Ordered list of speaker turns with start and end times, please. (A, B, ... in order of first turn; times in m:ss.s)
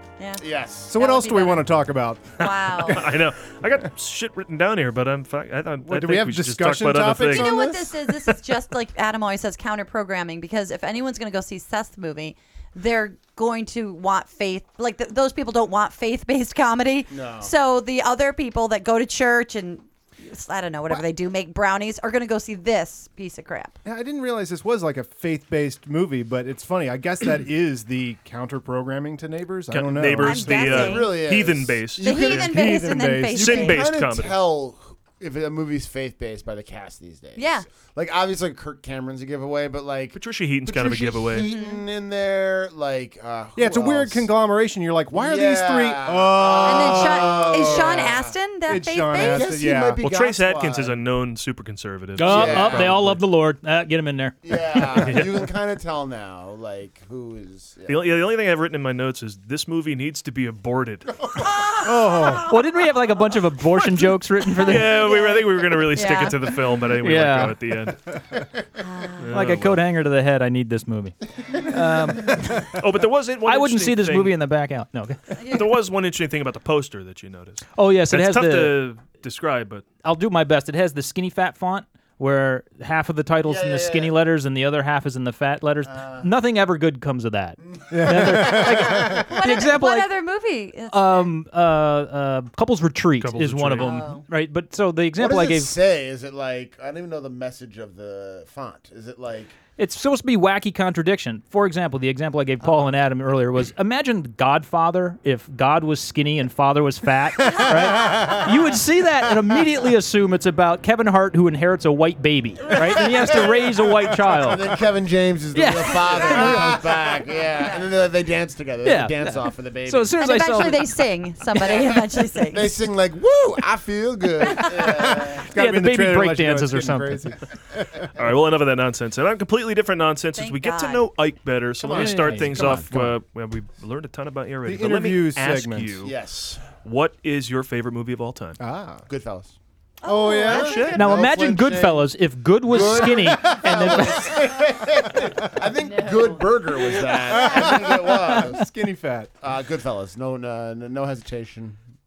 0:00.2-0:01.6 A
0:00.4-0:00.9 B
0:00.9-0:03.0 C
0:02.4-0:03.0 A
0:02.9-0:07.5 D
0:05.8-0:08.4 C
0:07.3-0:23.8 A
0:17.1-0:17.5 B
0:23.8-0:30.9 C
0:29.7-0:32.5 D
0:30.2-0:31.2 A
0:30.4-0:31.9 B
0:32.0-0:33.8 A
0:32.0-0:33.8 C
0:33.4-0:34.4 D
0:33.4-0:44.3 B
0:37.4-0:37.6 A
0:40.1-0:41.5 D
0:41.4-0:41.8 A
0:43.6-0:48.1 C
0:45.1-0:48.3 B
0:46.6-0:49.5 A
0:48.6-0:50.0 C
0:49.1-0:51.0 B
0:50.0-0:53.2 D
0:52.2-0:55.3 E
0:52.2-0:53.0 B
0:54.4-0:58.2 B
0:54.9-0:55.3 D
0:57.9-1:01.2 D
1:01.8-1:02.5 C
1:02.4-1:04.9 E
1:04.6-1:08.0 D
1:04.6-1:06.4 A
1:07.0-1:07.6 E
1:08.8-1:09.2 A
1:09.2-1:09.8 D
1:09.3-1:12.7 E
1:12.8-1:14.4 D
1:13.4-1:15.2 E
1:15.4-1:15.6 A
1:15.5-1:19.9 D
1:17.8-1:18.8 E
1:20.0-1:30.1 E
1:23.4-1:24.2 B
1:25.9-1:26.3 B
1:27.6-1:29.2 B
1:27.9-1:29.2 C
1:29.3-1:31.3 A
1:30.9-1:35.7 E
1:33.2-1:34.0 D
1:33.8-1:34.2 A
1:35.2-1:39.6 B
1:39.8-1:54.8 E
1:53.2-2:00.1 B
1:55.5-1:56.9 E
1:58.8-2:00.9 E
2:00.2-2:02.7 A
2:01.6-2:01.9 B
2:02.5-2:05.5 B
2:04.8-2:08.1 C
2:05.5-2:07.3 E
2:08.2-2:16.2 D
2:10.4-2:11.0 A
2:11.8-2:12.9 B
2:11.8-2:12.8 E
2:14.6-2:16.0 C
2:16.0-2:16.6 B
2:16.8-2:18.6 D
2:18.6-2:19.0 C
2:19.1-2:19.6 B
2:20.0-2:20.9 A
2:20.0-2:20.9 C
2:20.4-2:21.1 D
2:20.5-2:28.7 B
2:20.9-2:24.4 E
2:23.2-2:23.9 C
2:25.1-2:25.4 C
2:25.8-2:26.5 A
2:27.2-2:29.3 C
2:27.3-2:27.6 A
2:29.4-2:31.8 B